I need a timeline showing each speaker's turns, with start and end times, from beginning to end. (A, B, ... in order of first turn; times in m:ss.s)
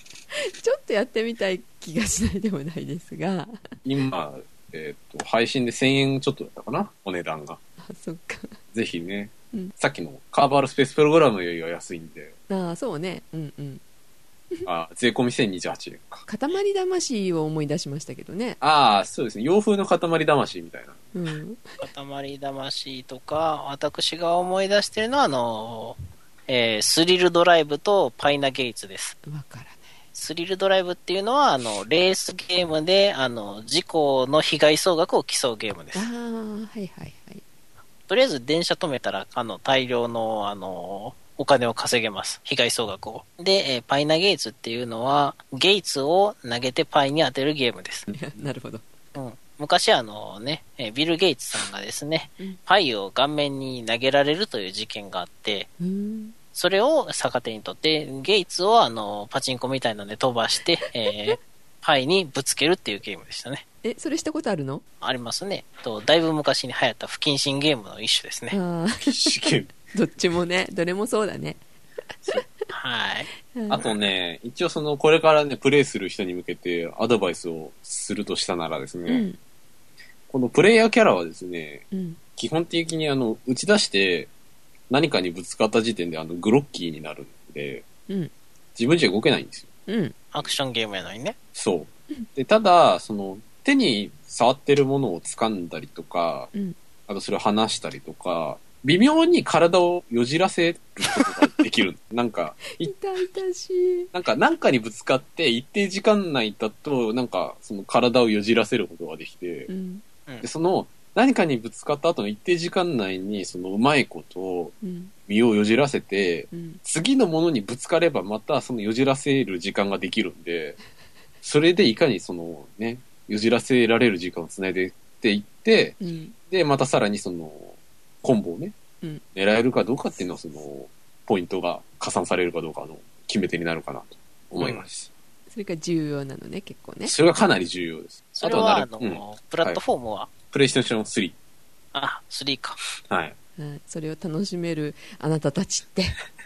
0:00.3-0:03.7 A
0:03.8-0:07.6 B
0:07.8-0:08.6 A
0:08.7-0:12.3 B
0:12.5-0:13.8 A
0:14.6-0:16.2 B
0:16.3-0:18.6 A
0:18.6-0:21.0 B
0:21.1-0:21.9 A
0:21.8-0:29.2 C
0:29.2-0:29.8 A
0:30.1-0:36.1 C
0:35.9-0:37.4 A
0:38.1-0:48.0 C
0:48.1-0:48.8 A
0:49.1-0:55.7 C
0:55.8-0:56.4 A
0:56.5-1:03.6 C
1:01.1-1:01.3 A
1:03.8-1:04.8 A
1:05.0-1:08.6 C
1:08.5-1:11.6 A
1:09.0-1:09.7 B
1:12.3-1:12.7 A
1:12.7-1:13.3 C
1:13.6-1:13.9 A
1:13.7-1:19.2 B
1:19.1-1:19.4 A
1:20.3-1:24.3 B
1:21.9-1:22.2 A
1:24.9-1:27.8 B
1:28.8-1:29.7 B
1:29.9-1:30.1 A
1:30.3-1:31.4 C
1:31.5-1:36.5 B
1:37.1-1:42.9 B
1:42.8-1:44.1 A
1:44.1-1:49.7 B
1:49.7-1:50.0 A
1:50.4-1:54.8 B
1:54.8-1:55.1 A
1:55.3-2:00.8 B
1:56.5-1:56.8 A
2:01.4-2:06.0 B
2:06.0-2:06.4 A
2:06.5-2:08.7 B
2:09.3-2:15.1 B
2:14.6-2:14.8 C
2:15.5-2:17.1 A
2:17.0-2:19.8 B
2:18.3-2:20.3 C
2:20.5-2:21.3 B
2:21.9-2:22.8 C
2:23.1-2:23.3 B
2:23.6-2:26.2 A